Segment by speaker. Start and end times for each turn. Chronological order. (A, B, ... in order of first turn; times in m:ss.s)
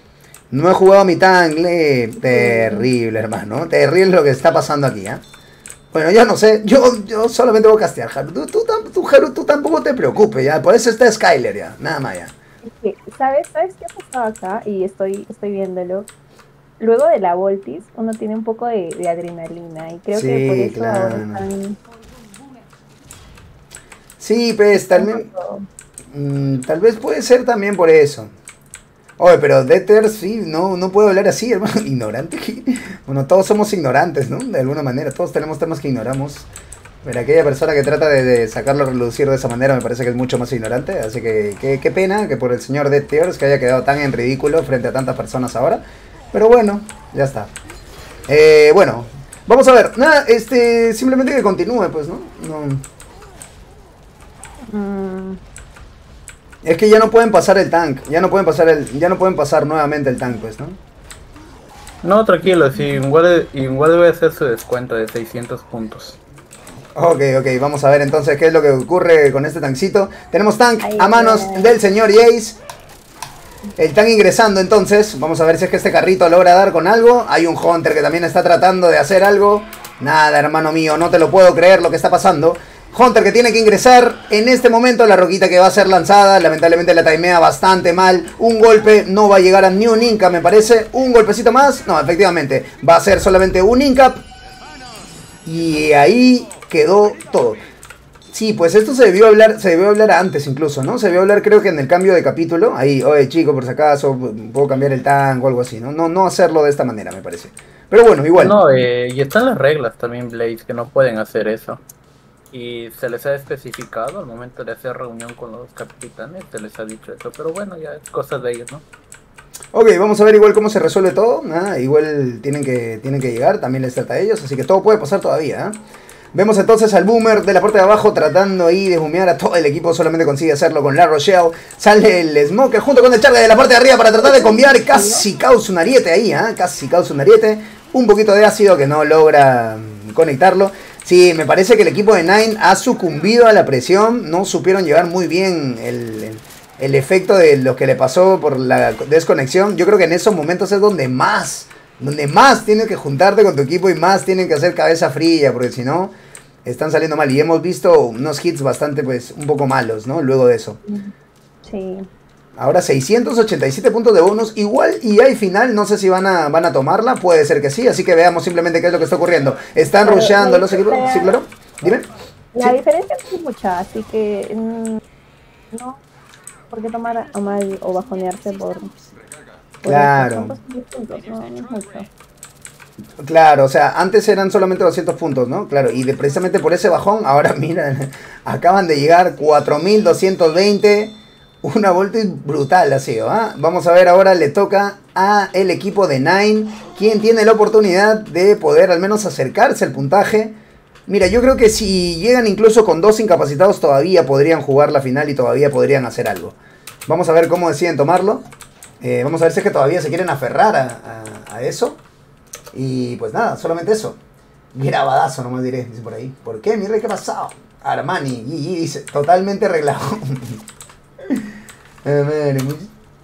0:00.5-0:05.2 A
0:02.2-0:02.9 B
0:05.9-0:12.3 A
0:12.6-0:16.1 B
0:16.8-0:21.8 B
0:20.1-0:21.5 A
0:24.2-0:25.3 A
0:24.8-0:25.7 B
0:26.1-0:28.3 A
0:29.2-0:36.5 A
0:37.0-0:47.5 A
0:48.3-0:52.8 A
0:54.7-0:55.4 B
0:56.6-1:00.8 A
1:02.0-1:06.2 C
1:07.0-1:12.6 A
1:10.8-1:11.8 B
1:13.8-1:34.2 A
1:35.4-1:37.6 A
1:38.3-1:48.6 A
1:48.4-1:51.8 C
1:52.5-1:58.8 C
1:59.7-2:05.8 A
2:06.3-2:36.1 A
2:14.2-2:15.2 B
2:36.6-2:40.8 A
2:41.6-2:42.1 B
2:42.6-2:52.8 A
2:50.0-2:51.4 B
2:52.5-2:55.0 B
2:55.7-2:56.0 B
2:56.7-2:58.9 B
2:59.8-3:00.6 A
2:59.8-3:02.1 B
3:03.2-3:20.6 A
3:21.1-3:28.4 A
3:29.0-3:32.0 A
3:32.7-3:34.2 A
3:34.7-3:40.6 A
3:42.0-3:42.9 A